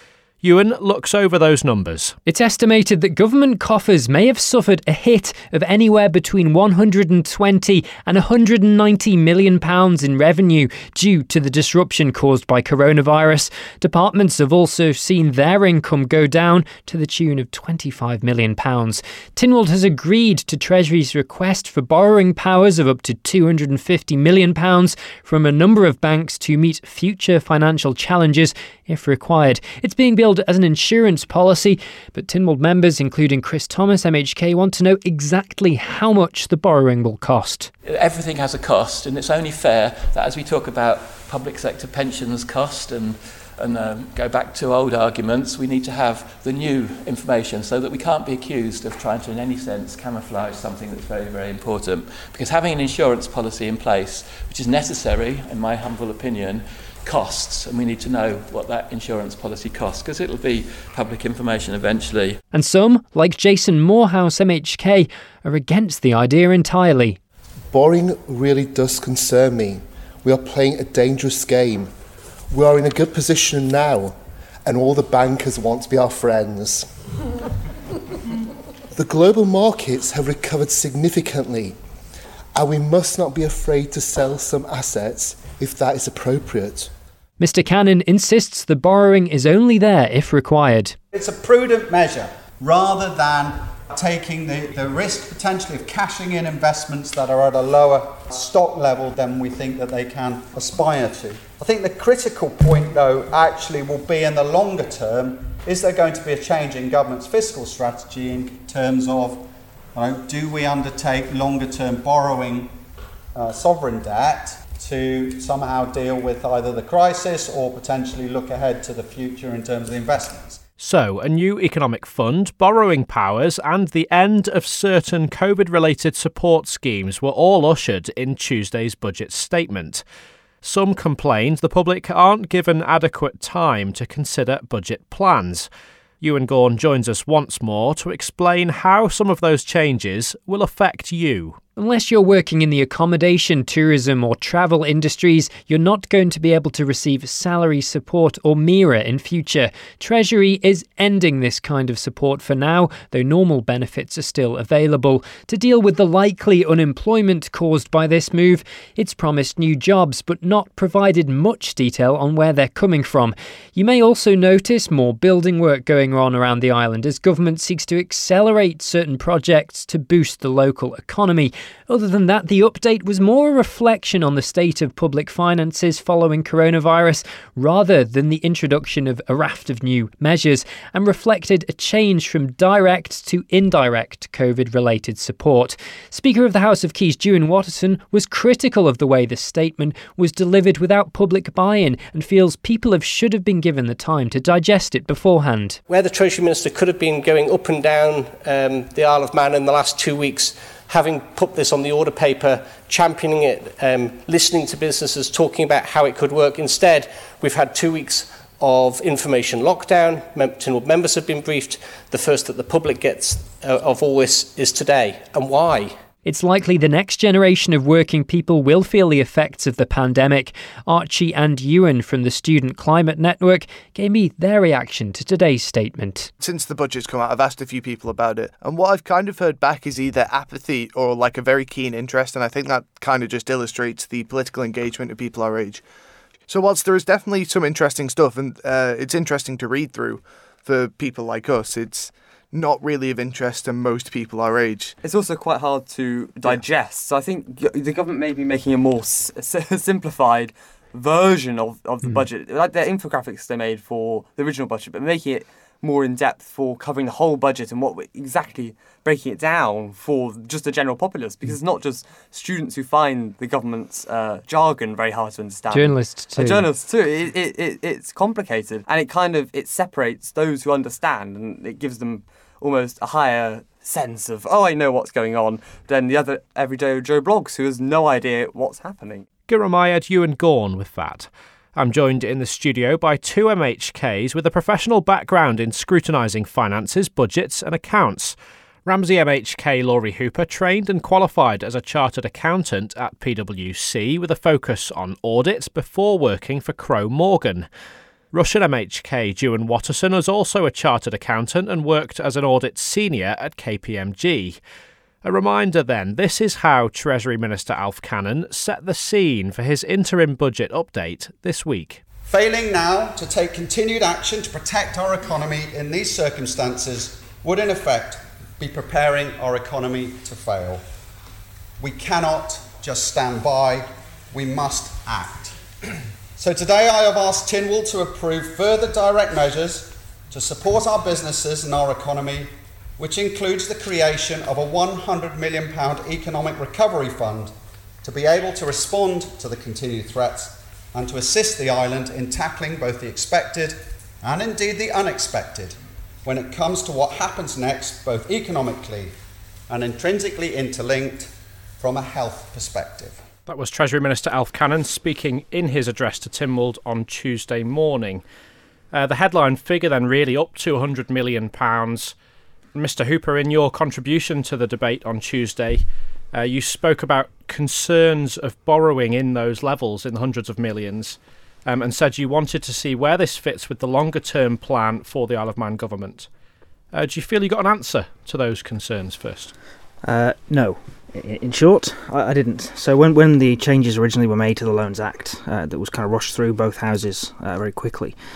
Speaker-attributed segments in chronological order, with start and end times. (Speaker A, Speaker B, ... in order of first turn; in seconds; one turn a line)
Speaker A: 0.4-2.2
Speaker B: 2.3-37.7
Speaker C: 37.8-62.4
Speaker B: 62.5-67.2
Speaker D: 67.7-71.9
Speaker D: 72.5-77.0
Speaker D: 78.9-81.8
Speaker D: 82.5-86.9
Speaker B: 87.4-91.0
Speaker E: 91.1-112.7
Speaker E: 113.3-120.6
Speaker A: 120.8-130.0
Speaker A: 130.6-135.7
Speaker A: 136.2-141.6
Speaker B: 141.8-195.8
Speaker F: 195.9-215.9
Speaker B: 216.2-226.3
Speaker G: 226.4-235.8
Speaker G: 236.5-245.0
Speaker H: 245.0-279.2
Speaker B: 265.7-266.6
Speaker A: 279.5-297.7
Speaker A: 298.3-304.6
Speaker A: 305.2-312.0
Speaker E: 312.3-320.8
Speaker E: 321.8-337.5
Speaker E: 338.0-349.1
Speaker E: 349.7-353.2
Speaker A: 353.5-358.2
Speaker A: 358.9-362.1
Speaker A: 362.7-376.3
Speaker A: 376.9-379.5
Speaker I: 380.0-388.1